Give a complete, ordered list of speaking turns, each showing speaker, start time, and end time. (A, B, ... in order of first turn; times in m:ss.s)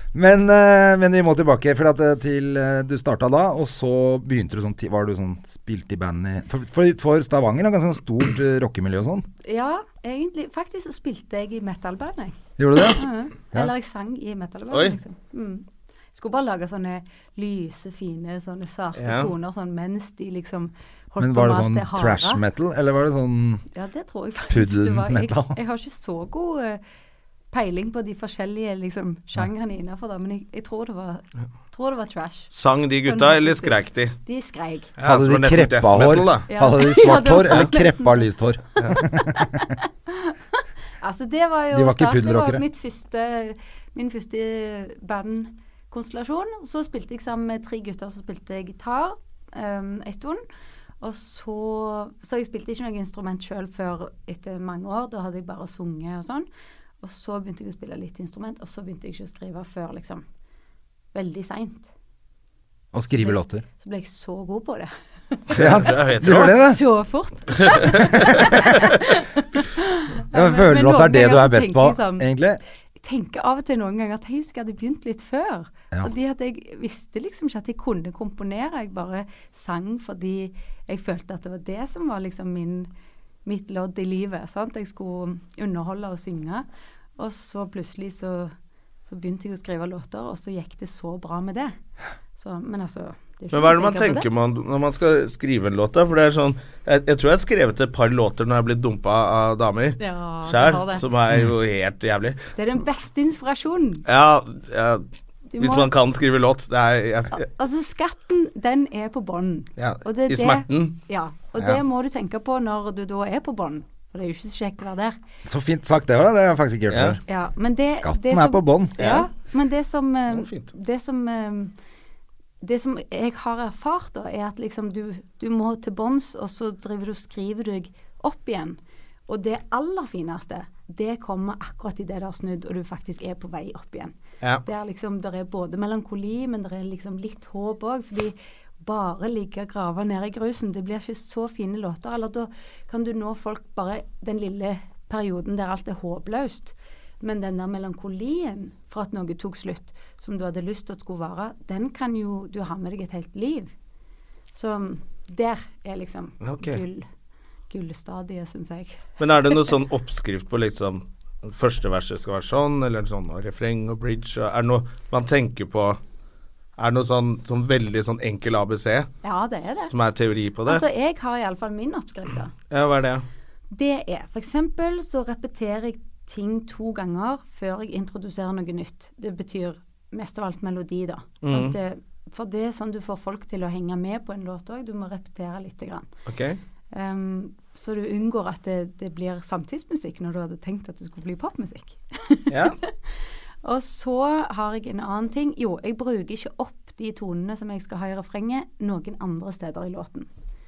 0:00.1-0:09.3 A
0:09.4-0:22.4 B
0:12.6-0:13.7 A
0:14.7-0:15.0 C
0:19.0-0:19.3 C
0:21.2-0:23.6 A
0:23.7-0:26.8 B
0:24.5-0:25.6 A
0:27.5-0:34.9 B
0:32.5-0:34.2 C
0:35.0-0:36.5 C
0:35.0-0:39.6 A
0:36.5-0:50.4 B
0:41.7-0:42.6 A
0:51.0-0:56.5 B
0:57.0-1:00.2 B
1:01.1-1:01.9 B
1:02.9-1:03.6 A
1:03.2-1:12.3 B
1:05.5-1:06.6 C
1:05.6-1:06.8 A
1:07.7-1:08.5 C
1:08.1-1:08.6 A
1:10.3-1:12.6 A
1:13.0-1:22.9 B
1:23.4-1:26.7 B
1:27.2-1:28.5 B
1:29.0-1:31.8 B
1:32.4-1:34.3 B
1:33.5-1:42.4 C
1:40.0-1:41.0 B
1:42.6-1:44.0 B
1:44.1-1:45.0 C
1:45.5-1:45.9 B
1:45.6-1:47.4 C
1:47.3-1:55.2 B
1:49.8-1:51.0 C
1:55.4-1:57.2 A
1:56.9-1:57.2 C
1:57.3-2:01.7 B
1:57.9-1:59.2 A
1:59.0-1:59.3 C
2:00.3-2:00.7 C
2:02.6-2:33.7 B
2:34.6-2:37.1 B
2:36.4-2:36.8 C
2:37.7-2:39.6 B
2:39.2-2:46.0 C
2:46.8-2:49.1 C
2:49.2-2:49.9 B
2:49.9-2:50.8 C
2:50.7-2:52.5 B
2:52.7-2:53.2 C
2:53.7-3:06.1 B
3:01.4-3:01.8 C
3:06.3-3:06.6 C
3:06.9-3:12.9 B
3:12.5-3:12.8 C
3:13.6-3:20.3 B